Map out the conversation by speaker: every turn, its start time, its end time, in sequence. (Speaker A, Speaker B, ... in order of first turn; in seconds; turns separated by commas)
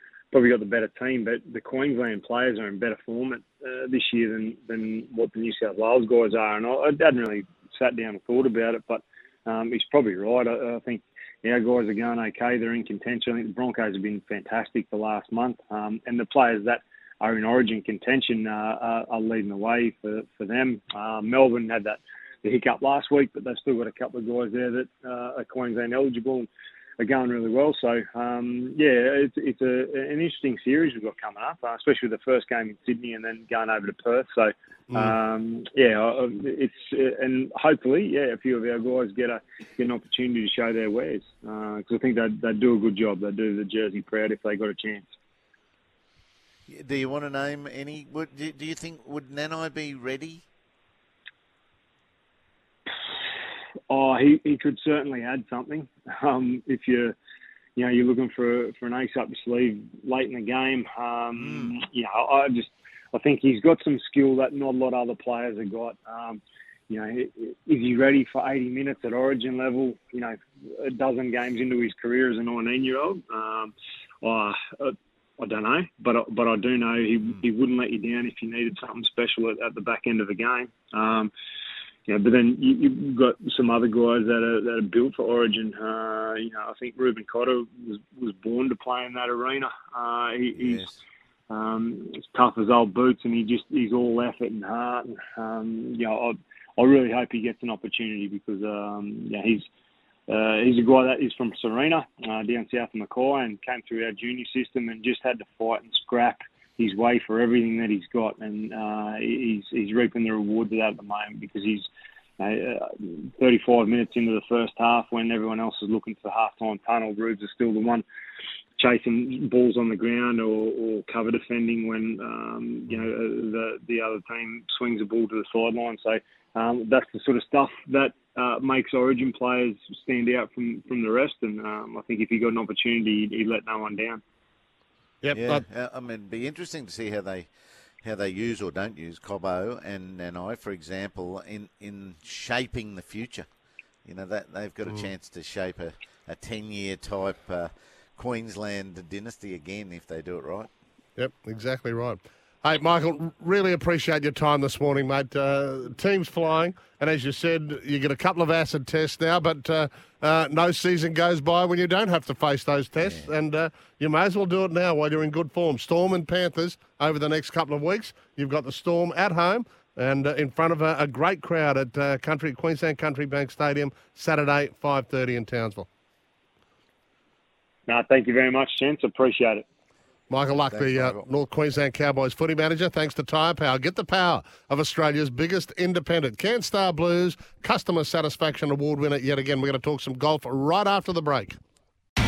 Speaker A: 0.3-26.5, Speaker A: 27.0-45.1, Speaker B: 46.7-50.4, Speaker A: 53.9-57.1, Speaker A: 57.8-81.3, Speaker B: 61.4-61.7, Speaker A: 82.1-90.9, Speaker B: 90.5-91.0, Speaker A: 91.5-99.6, Speaker A: 100.3-111.9, Speaker A: 112.4-118.0, Speaker A: 118.8-134.2, Speaker C: 135.2-135.6, Speaker B: 135.3-137.5, Speaker B: 138.0-143.5, Speaker B: 144.0-150.7, Speaker C: 151.2-175.9, Speaker B: 163.0-163.3, Speaker A: 177.9-179.6, Speaker C: 180.3-191.6, Speaker B: 180.7-181.2